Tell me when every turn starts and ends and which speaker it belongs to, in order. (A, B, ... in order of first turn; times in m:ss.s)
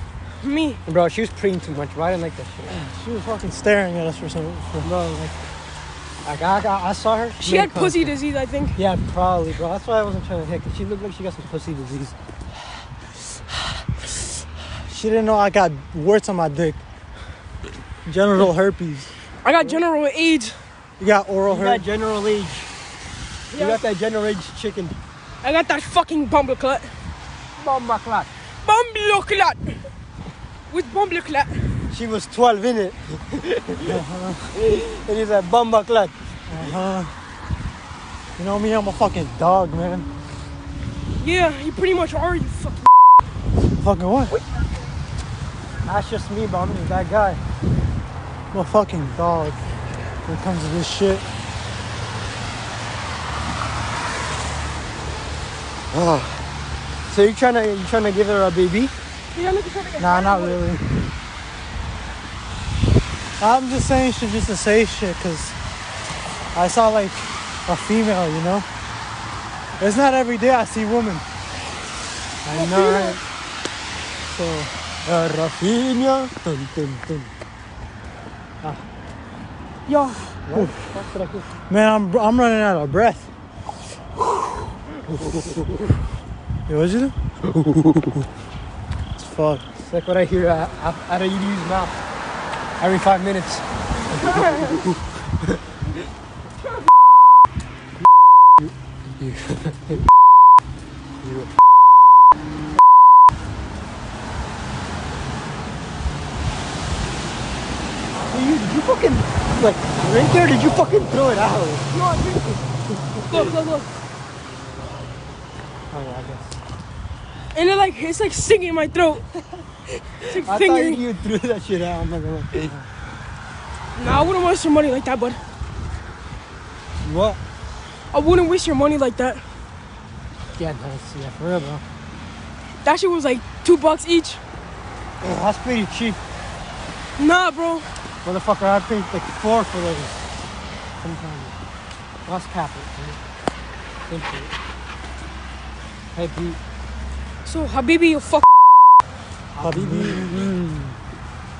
0:00.4-0:00.8 A
0:00.9-0:02.8 B
0:02.7-0:04.9 C
0:04.8-0:05.4 B
0:06.2-0:08.1 B
0:07.4-0:08.8 A
0:08.8-0:12.2 B
0:14.9-0:16.8 C
0:18.1-0:19.1 C
0:19.4-0:20.6 A
0:21.0-0:21.9 C
0:21.5-0:22.7 B
0:23.5-0:23.8 A
0:23.5-0:25.0 B
0:25.4-0:26.9 A
0:27.6-0:28.3 B
0:28.6-0:29.8 A
0:30.7-0:31.6 A
0:31.9-0:34.0 B
0:33.8-0:34.5 C
0:34.5-0:36.1 B
0:36.5-0:37.1 C
0:38.4-0:40.1 C
0:41.2-0:42.9 A
0:43.8-0:44.4 C
0:45.9-0:47.4 B
0:48.5-0:49.6 C
0:50.3-0:51.2 C
0:55.9-0:56.4 B
0:57.1-0:58.9 B
0:59.3-1:00.6 A
1:00.0-1:00.9 C
1:03.4-1:05.6 C
1:06.5-1:08.7 C
1:09.8-1:11.3 C
1:12.4-1:13.2 B
1:12.5-1:13.2 C
1:14.2-1:14.7 C
1:15.0-1:17.3 B
1:19.9-1:21.5 B
1:20.5-1:20.9 C
1:21.7-1:23.3 C
1:25.1-1:25.9 B
1:26.7-1:27.2 C
1:27.6-1:28.2 B
1:29.2-1:29.6 C
1:29.8-1:32.0 B
1:32.8-1:35.6 B
1:34.1-1:34.8 A
1:38.6-1:40.0 B
1:41.2-1:41.5 B
1:48.3-1:51.9 B
1:51.9-1:52.6 A
1:53.1-1:53.5 B
1:53.3-1:53.9 A
1:55.9-1:56.6 B
1:57.5-1:59.2 A
2:00.2-2:01.0 A
2:00.3-2:02.8 B
2:03.9-2:05.4 A
2:07.0-2:07.4 B
2:08.1-2:09.4 A
2:10.6-2:11.8 B
2:12.8-2:14.4 A
2:15.2-2:16.2 B
2:17.2-2:17.9 A
2:18.2-2:20.2 B
2:21.0-2:21.6 B
2:22.2-2:23.2 B
2:24.1-2:24.6 B
2:26.1-2:26.6 B
2:27.4-2:28.4 A
2:29.6-2:31.0 B
2:29.6-2:30.4 C